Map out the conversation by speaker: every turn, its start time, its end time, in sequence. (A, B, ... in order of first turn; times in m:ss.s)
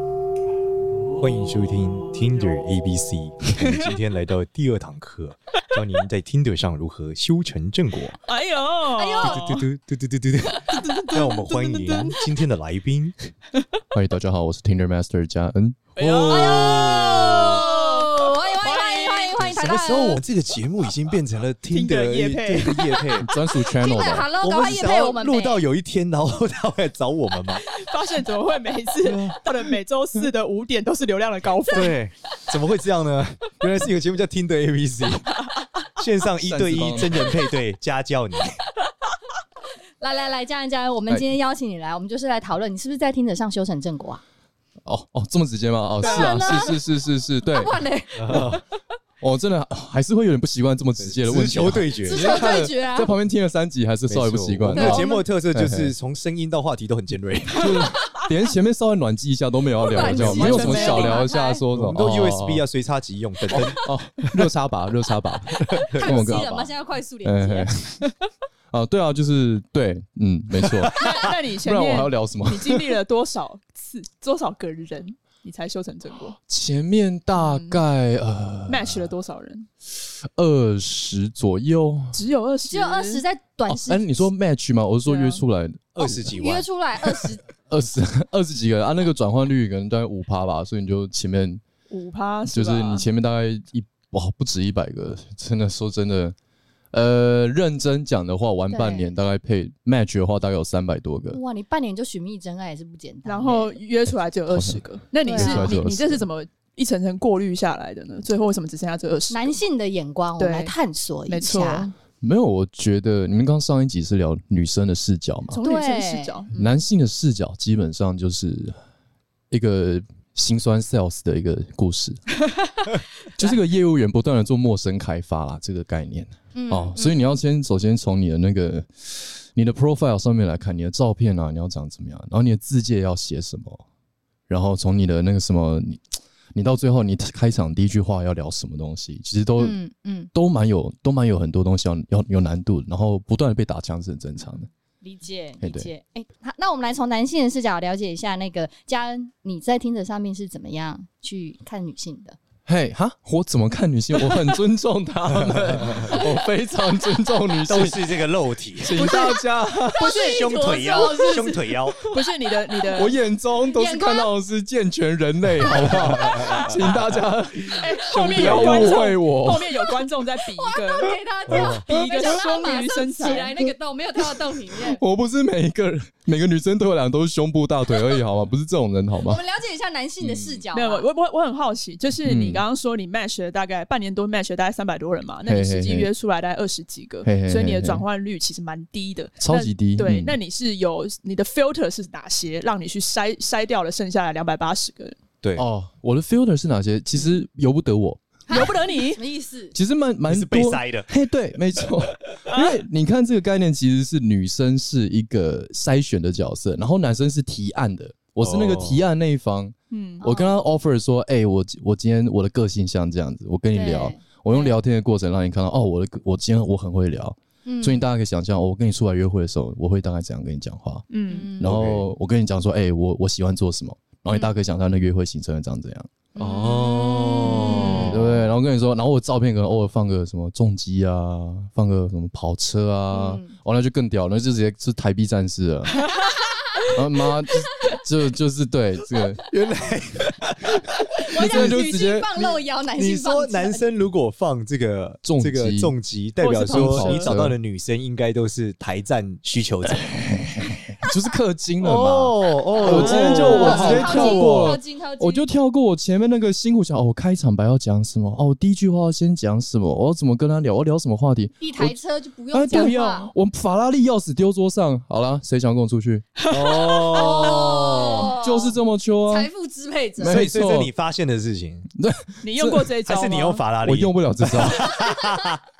0:01.2-0:08.2 A
0:08.2-0:09.7 B
0:08.9-0:09.5 C
0:09.2-0:13.3 A
0:10.6-0:12.2 B
0:13.9-0:15.8 D
0:16.0-0:19.4 B
0:16.0-0:17.6 A
0:16.3-0:20.2 C
0:19.4-0:23.3 A
0:21.7-0:22.8 B
0:23.2-0:24.3 D
0:23.6-0:25.6 C
0:24.4-0:27.6 A
0:27.7-0:31.9 B
0:29.0-0:29.4 A
0:31.7-0:35.3 A
0:36.0-0:38.6 A
0:36.4-0:37.4 D
0:40.0-0:44.2 C
0:44.8-0:48.6 D
0:46.0-0:46.8 C
0:47.5-0:48.6 C
0:48.2-0:48.6 A
0:49.2-0:55.9 D
0:51.0-0:52.4 A
0:52.0-0:53.1 C
0:54.1-0:57.9 A
0:54.7-0:55.2 C
0:57.5-1:02.6 D
0:59.8-1:01.6 C
0:59.9-1:00.7 A
1:00.3-1:01.3 B
1:01.7-1:04.5 A
1:03.5-1:06.7 D
1:05.5-1:06.6 A
1:05.9-1:07.7 C
1:07.2-1:08.0 D
1:08.7-1:12.9 D
1:10.9-1:16.4 B
1:16.4-1:19.1 D
1:17.4-1:17.8 B
1:18.7-1:19.7 B
1:20.2-1:22.2 D
1:22.1-1:23.2 B
1:22.7-1:24.3 C
1:23.7-1:26.3 D
1:25.0-1:25.4 B
1:25.9-1:26.7 A
1:26.1-1:27.4 C
1:27.0-1:31.6 D
1:31.9-1:33.0 B
1:32.5-1:36.3 D
1:36.9-1:41.4 D
1:38.7-1:39.1 C
1:41.3-1:43.8 C
1:43.2-1:49.5 B
1:44.5-1:46.2 D
1:45.2-1:45.8 C
1:49.3-1:51.9 C
1:50.4-1:50.7 B
1:51.3-1:51.9 B
1:52.2-1:55.6 D
1:55.5-1:56.8 B
1:55.6-1:56.4 C
1:56.5-1:58.7 D
1:59.5-2:02.2 D
2:03.4-2:13.8 D
2:06.5-2:07.2 C
2:14.5-2:19.8 D
2:19.6-2:20.3 C
2:20.3-2:24.7 D
2:25.0-2:32.4 C
2:25.6-2:25.9 D
2:32.7-2:38.1 D
2:35.3-2:36.2 A
2:37.7-2:38.9 A
2:38.8-2:40.1 D
2:39.0-2:41.5 B
2:39.0-2:39.4 C
2:39.9-2:41.9 C
2:40.1-2:42.0 A
2:42.1-2:43.1 B
2:42.9-2:49.7 D
2:43.7-2:44.3 C
2:45.6-2:47.2 A
2:47.6-2:53.5 B
2:48.0-2:49.0 A
2:50.6-2:55.0 C
2:51.5-2:51.8 A
2:54.2-2:59.4 D
2:59.2-3:01.1 C
3:00.2-3:00.6 D
3:00.7-3:15.2 B
3:02.2-3:02.6 D
3:05.4-3:06.1 D
3:07.2-3:08.0 D
3:09.4-3:10.4 D
3:15.6-3:18.2 D
3:18.5-3:19.7 C
3:18.5-3:19.2 B
3:19.7-3:41.0 D
3:20.3-3:21.1 A
3:28.4-3:29.0 A
3:29.9-3:30.2 B
3:30.2-3:30.6 C
3:33.7-3:34.8 C
3:37.6-3:38.1 C
3:41.1-3:41.5 B
3:41.3-3:41.7 C
3:41.6-3:46.1 D
3:41.6-3:42.0 A
3:46.4-3:48.2 C
3:46.4-3:48.4 A
3:47.8-3:56.0 D
3:53.1-3:53.5 C
3:56.9-3:59.4 D
3:59.5-4:01.8 A
4:01.3-4:03.8 C
4:01.3-4:02.3 D
4:02.4-4:10.2 A
4:05.2-4:05.9 D
4:06.4-4:07.4 B
4:06.7-4:07.6 D
4:10.2-4:22.0 D
4:11.8-4:14.8 A
4:13.0-4:14.0 B
4:13.0-4:15.5 C
4:21.6-4:23.3 C
4:22.5-4:26.3 D
4:26.4-4:27.5 B
4:26.5-4:28.3 A
4:27.1-4:30.4 C
4:28.1-4:29.5 D
4:30.2-4:30.9 D
4:30.2-4:31.9 A
4:32.0-4:33.0 D
4:32.4-4:33.6 B
4:33.0-4:35.6 A
4:33.8-4:35.0 D